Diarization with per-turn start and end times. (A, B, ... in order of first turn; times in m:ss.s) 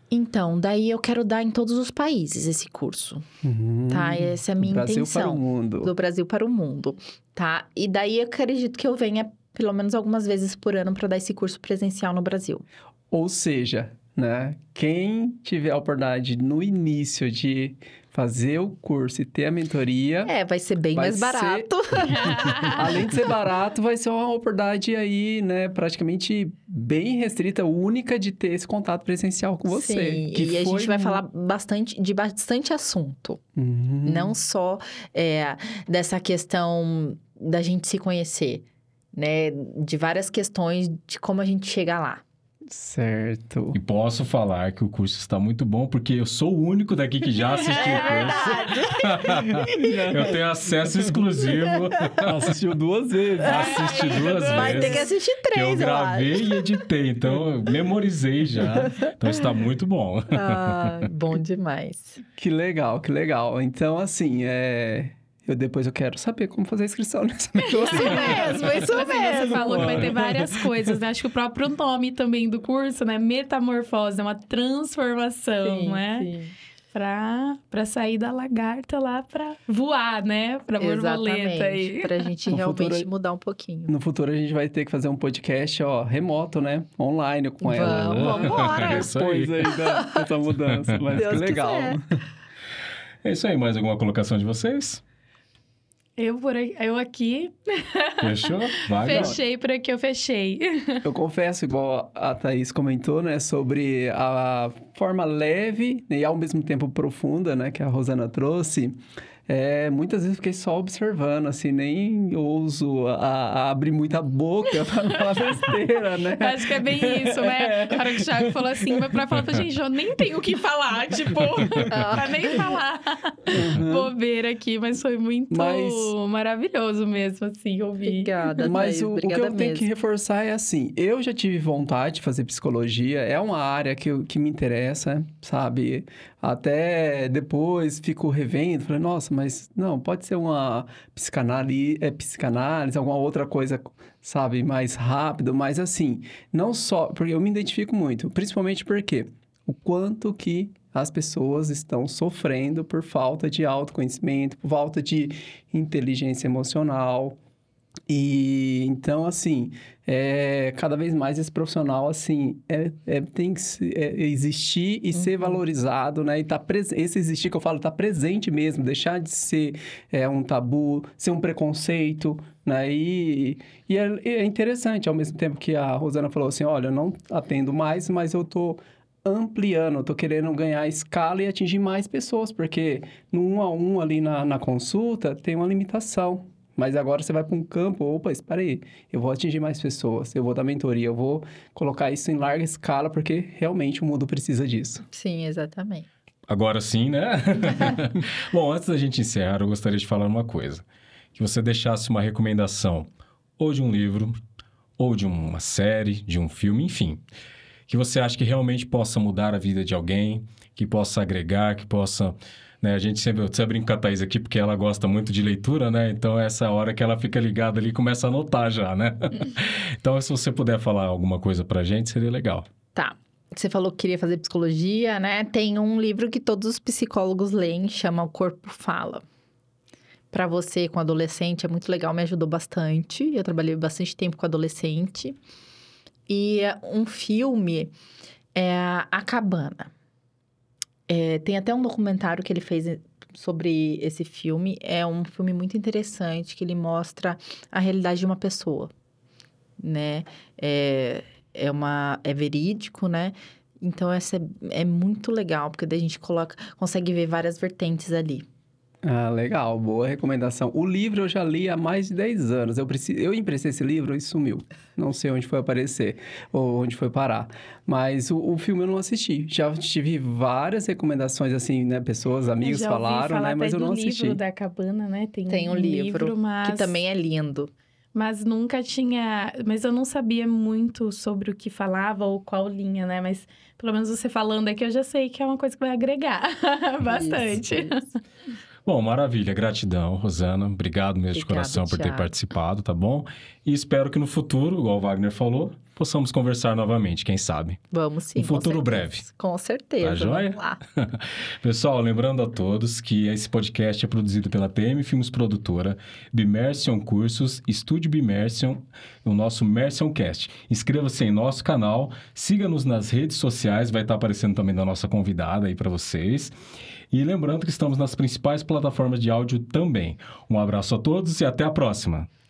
0:00.1-0:03.2 A
0:03.4-0:05.9 B
0:03.9-0:12.6 A
0:13.1-0:20.3 B
0:20.2-0:23.0 A
0:20.9-0:31.2 B
0:22.2-0:23.0 C
0:29.7-0:33.4 A
0:33.6-0:34.3 B
0:34.0-0:42.2 A
0:42.7-0:43.8 B
0:43.7-0:52.6 D
0:47.7-0:49.9 A
0:47.8-0:48.3 C
0:49.6-0:51.2 B
0:52.2-0:55.0 B
0:53.4-1:01.1 D
0:53.5-0:54.4 C
0:54.4-0:56.7 A
1:00.3-1:02.2 A
1:02.4-1:11.0 B
1:07.7-1:10.1 A
1:07.8-1:16.3 C
1:15.6-1:16.5 A
1:16.9-1:22.2 C
1:20.8-1:23.9 A
1:22.5-1:23.1 B
1:23.9-1:32.2 B
1:27.6-1:29.1 A
1:27.8-1:29.8 D
1:30.6-1:31.4 D
1:31.1-1:32.0 A
1:33.2-1:35.0 D
1:36.2-1:41.0 C
1:38.2-1:39.4 D
1:39.0-1:39.4 B
1:41.0-1:59.4 B
1:55.3-1:55.6 C
1:56.4-2:08.7 C
2:01.9-2:02.8 A
2:03.5-2:04.1 B
2:05.5-2:06.1 B
2:08.0-2:09.9 A
2:08.6-2:37.4 B
2:38.1-3:15.0 B
3:15.1-3:16.1 A
3:16.5-3:24.4 D
3:25.0-3:27.2 D
3:27.9-3:42.6 D
3:42.9-3:49.2 A
3:50.3-3:55.4 A
3:56.3-3:57.9 A
3:58.5-3:59.9 A
4:01.1-4:08.9 A
4:09.8-4:18.4 A
4:19.0-4:34.4 B
4:32.6-4:37.0 C
4:35.5-4:37.7 A
4:38.1-4:48.1 C
4:47.0-4:48.1 A
4:48.8-4:57.8 D
4:51.3-4:52.3 A
4:57.9-5:00.8 A
4:58.4-4:59.2 D
5:00.0-5:16.5 D
5:17.1-5:22.3 D